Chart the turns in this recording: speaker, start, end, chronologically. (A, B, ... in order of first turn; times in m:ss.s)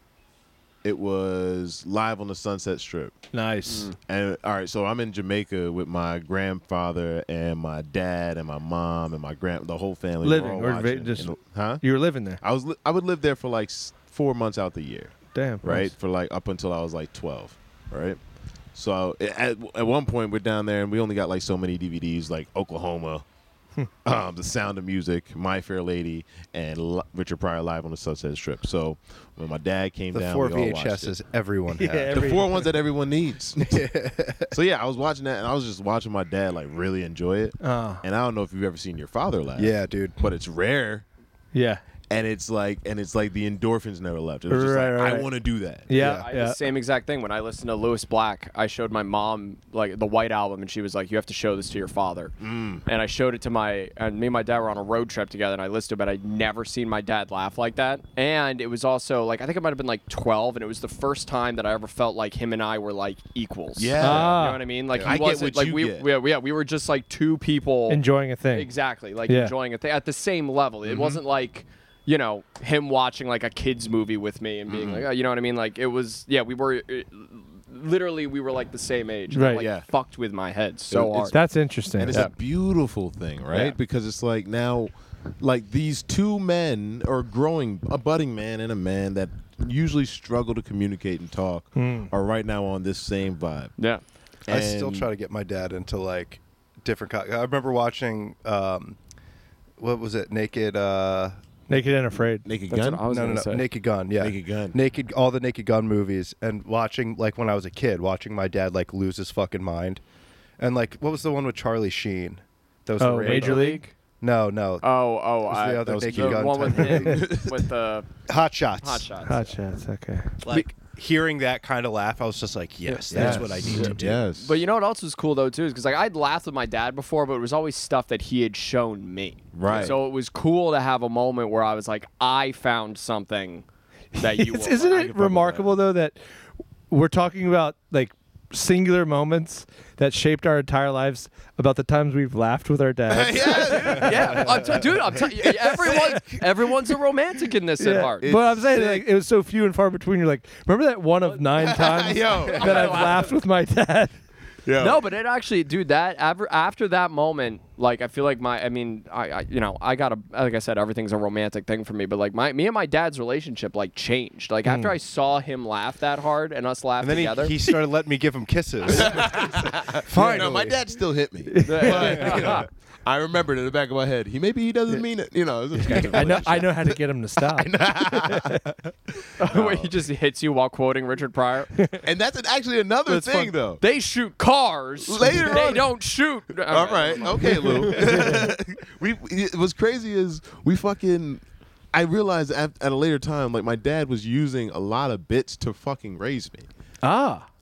0:00.8-0:03.3 A
0:03.3-0:03.9 B
0:03.7-0:03.9 C
0:04.1-0:11.8 A
0:10.2-0:12.4 B
0:12.4-0:18.2 A
0:15.3-0:15.9 B
0:18.7-0:23.2 A
0:24.0-0:31.1 A
0:30.1-0:32.4 D
0:31.8-0:32.6 B
0:32.1-0:33.9 A
0:33.6-0:34.5 D
0:34.5-0:41.0 A
0:37.6-0:38.0 B
0:39.6-0:40.2 D
0:41.5-0:41.8 B
0:42.1-0:45.9 A
0:44.5-0:45.3 B
0:45.9-0:46.6 B
0:45.9-0:46.3 D
0:45.9-1:08.0 C
0:52.4-0:52.8 A
1:03.8-1:04.4 A
1:04.0-1:04.6 B
1:05.0-1:06.1 A
1:07.9-1:08.7 B
1:08.5-1:21.4 C
1:09.3-1:09.5 B
1:10.8-1:11.2 A
1:14.7-1:15.1 A
1:19.3-1:19.6 B
1:19.6-1:19.8 A
1:20.9-1:21.3 A
1:21.3-1:22.2 B
1:22.0-1:33.7 A
1:23.5-1:23.8 C
1:31.7-1:32.1 B
1:34.5-1:35.1 A
1:34.5-1:39.0 D
1:39.8-1:41.3 D
1:41.7-1:42.5 B
1:42.4-1:43.0 A
1:42.7-1:43.6 C
1:43.0-1:50.0 D
1:44.2-1:44.8 A
1:50.6-1:54.8 D
1:53.0-1:53.8 B
1:53.2-1:53.9 C
1:54.8-1:58.1 C
1:55.4-1:57.4 D
1:55.9-1:57.6 A
1:58.3-1:59.1 D
1:58.8-1:59.6 C
1:59.2-2:00.4 B
2:00.4-2:04.2 D
2:02.8-2:13.6 C
2:03.1-2:04.6 A
2:09.5-2:10.0 A
2:14.2-2:15.2 C
2:14.2-2:16.2 B
2:15.1-2:15.7 A
2:16.9-2:24.4 B
2:23.1-2:26.9 A
2:23.4-2:28.3 C
2:27.8-2:34.2 B
2:28.2-2:29.0 A
2:31.6-2:33.2 A
2:32.2-2:33.3 C
2:34.6-2:35.0 A
2:34.8-2:47.6 C
2:44.6-2:44.9 B
2:47.0-2:50.8 D
2:48.9-2:58.7 A
2:50.2-2:50.5 B
2:51.5-2:52.6 B
2:51.6-2:52.7 C
2:55.8-2:58.8 B
2:59.4-2:59.9 A
2:59.4-3:01.7 C
3:01.8-3:02.0 B
3:02.0-3:03.8 A
3:03.1-3:08.4 C
3:05.0-3:05.9 A
3:06.7-3:16.7 A
3:08.0-3:08.4 B
3:17.0-3:17.5 B